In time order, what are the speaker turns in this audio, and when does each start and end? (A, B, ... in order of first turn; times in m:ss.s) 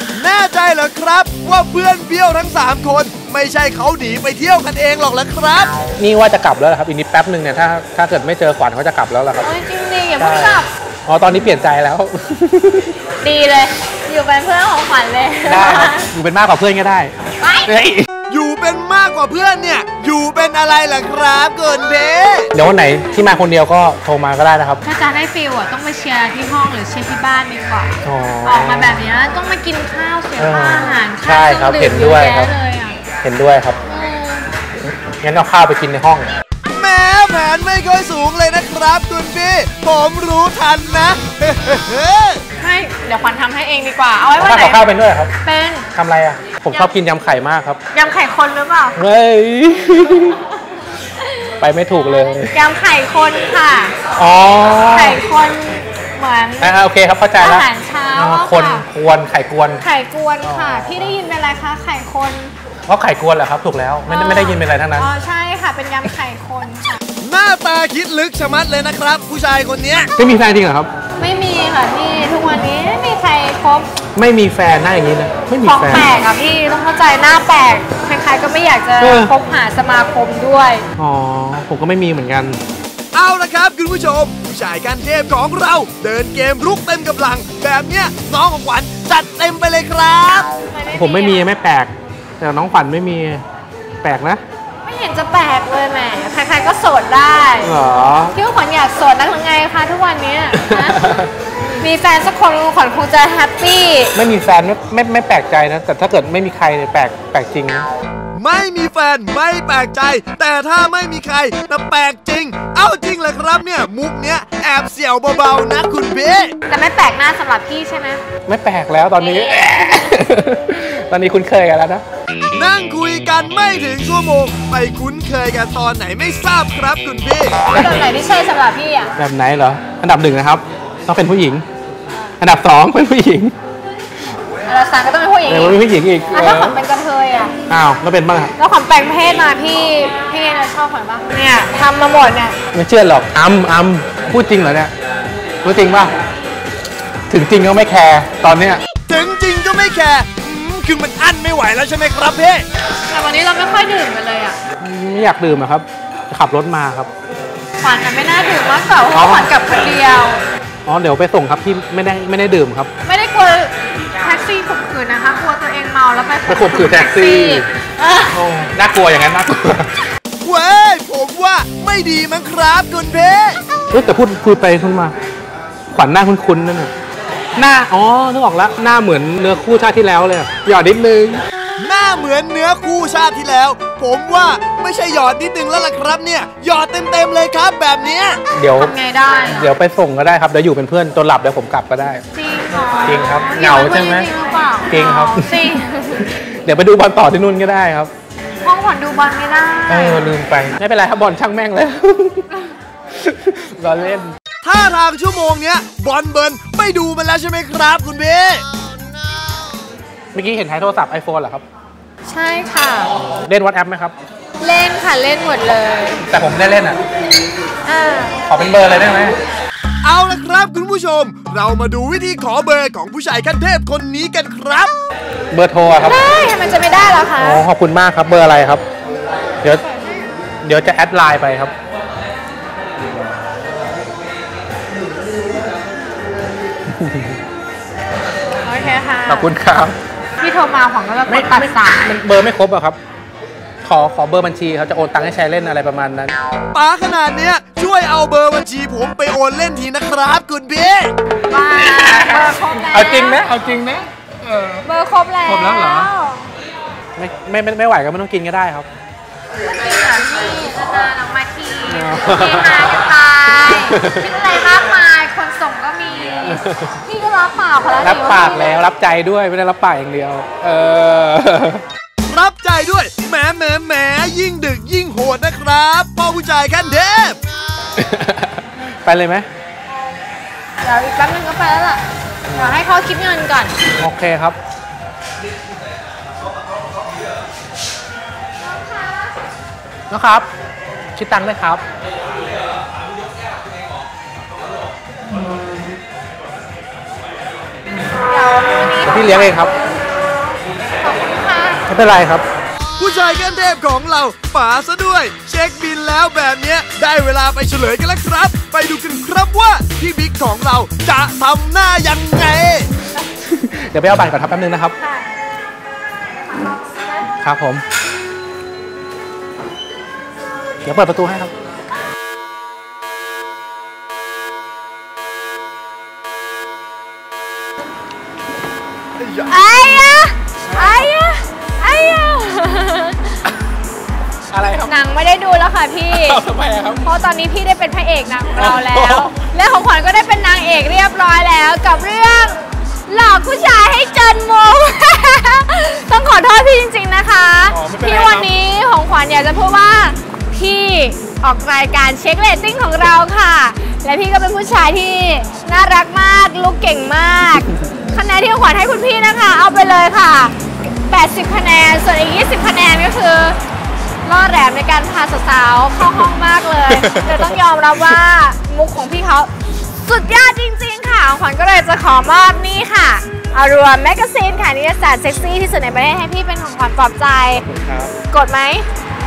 0:00.1-0:05.7 A
0:06.0-0:09.5 B
0:09.4-0:10.7 C
0:10.2-0:13.0 B
0:13.2-0:16.1 C
0:15.4-0:17.1 B
0:17.4-0:17.7 C
0:17.7-0:18.1 B
0:18.3-0:22.5 A
0:22.5-0:24.8 B
0:24.8-0:33.0 C
0:28.0-0:29.0 B
0:30.4-0:32.5 B
0:33.2-0:33.8 B
0:33.9-0:34.5 C
0:34.8-0:36.3 B
0:36.7-0:42.4 A
0:42.6-0:44.8 C
0:44.4-0:45.3 B
0:45.4-0:45.9 C
0:45.9-0:47.8 B
0:47.9-0:49.0 C
0:49.0-0:50.4 B
0:51.6-0:52.5 B
0:52.4-0:53.9 C
0:54.2-0:55.2 B
0:54.9-0:56.7 C
0:56.6-0:59.8 B
0:57.4-0:58.8 C
0:59.8-1:02.5 C
1:00.4-1:01.2 B
1:02.9-1:05.1 B
1:04.1-1:07.0 C
1:07.2-1:10.1 A
1:10.2-1:10.9 B
1:11.2-1:13.9 C
1:14.2-1:16.1 B
1:15.6-1:20.8 C
1:19.0-1:19.3 B
1:21.0-1:22.6 B
1:23.1-1:30.5 A
1:30.6-1:31.5 C
1:30.9-1:33.4 B
1:34.0-1:34.4 B
1:34.8-1:37.7 C
1:37.6-1:38.3 B
1:38.3-1:41.0 C
1:40.5-1:41.3 B
1:41.7-1:44.1 C
1:44.1-1:47.9 B
1:48.3-1:56.6 A
1:56.7-1:58.2 C
1:58.5-2:02.0 B
1:59.2-2:00.0 C
2:02.5-2:07.6 A
2:07.7-2:09.1 C
2:07.7-2:08.0 B
2:09.2-2:11.6 B
2:12.4-2:13.5 B
2:14.6-2:17.5 C
2:15.4-2:16.8 B
2:17.7-2:18.5 B
2:18.6-2:22.6 C
2:22.7-2:24.9 B
2:25.6-2:26.1 B
2:27.3-2:28.8 B
2:29.1-2:32.6 A
2:33.1-2:34.6 C
2:34.8-2:37.1 B
2:37.8-2:40.4 C
2:39.1-2:39.5 B
2:40.8-2:42.9 B
2:43.0-2:48.4 C
2:46.5-2:47.6 B
2:48.3-2:49.9 B
2:50.4-2:53.6 A
2:53.9-2:55.1 B
2:55.9-2:56.9 B
2:57.6-3:01.4 B
3:01.8-3:08.4 A
3:08.5-3:12.2 B
3:08.8-3:09.7 C
3:12.3-3:16.3 C
3:13.0-3:14.3 B
3:14.9-3:18.1 B
3:18.6-3:20.3 C
3:19.9-3:22.5 B
3:23.1-3:24.3 B
3:24.6-3:28.6 A
3:30.3-3:31.6 B
3:32.2-3:33.1 C
3:33.2-3:34.1 B
3:34.6-3:36.2 C
3:36.3-3:37.0 B
3:37.8-3:38.4 C
3:38.5-3:39.4 B
3:40.0-3:44.9 A
3:45.5-3:46.2 B
3:46.0-3:47.6 C
3:47.4-3:48.8 B
3:49.8-3:50.3 C
3:50.6-3:51.7 B
3:56.9-3:57.4 B
3:58.6-3:59.5 C
3:59.2-4:00.0 B
4:00.4-4:02.1 C
4:01.3-4:03.0 B
4:03.8-4:06.3 B
4:06.7-4:11.1 A
4:11.5-4:13.4 C
4:11.7-4:14.8 B
4:14.8-4:16.5 C
4:15.4-4:16.1 B
4:17.2-4:18.9 B
4:19.6-4:28.8 C
4:21.9-4:24.2 B
4:26.4-4:27.0 B
4:28.0-4:31.8 B
4:32.3-4:37.4 A
4:38.0-4:39.5 B
4:40.8-4:43.7 C
4:42.5-4:42.8 B
4:44.0-4:44.6 B
4:48.6-4:49.3 C
4:50.1-4:50.5 B
4:51.1-4:51.8 B
4:58.2-4:59.9 C
4:59.0-4:59.7 B
5:01.0-5:01.8 C
5:01.9-5:02.4 B
5:03.0-5:12.9 A
5:13.4-5:15.0 B
5:15.0-5:15.4 C
5:16.5-5:17.3 C
5:17.4-5:17.8 B
5:20.8-5:21.5 B
5:29.2-5:29.6 A
5:29.4-5:33.4 C
5:34.5-5:34.9 B
5:34.8-5:36.4 C
5:36.1-5:37.0 B
5:37.0-6:03.6 C
5:38.6-5:39.3 B
5:47.7-5:48.5 B
6:04.2-6:09.5 C
6:06.9-6:07.6 B
6:10.0-6:17.6 C
6:17.6-6:18.1 B
6:18.3-6:18.9 C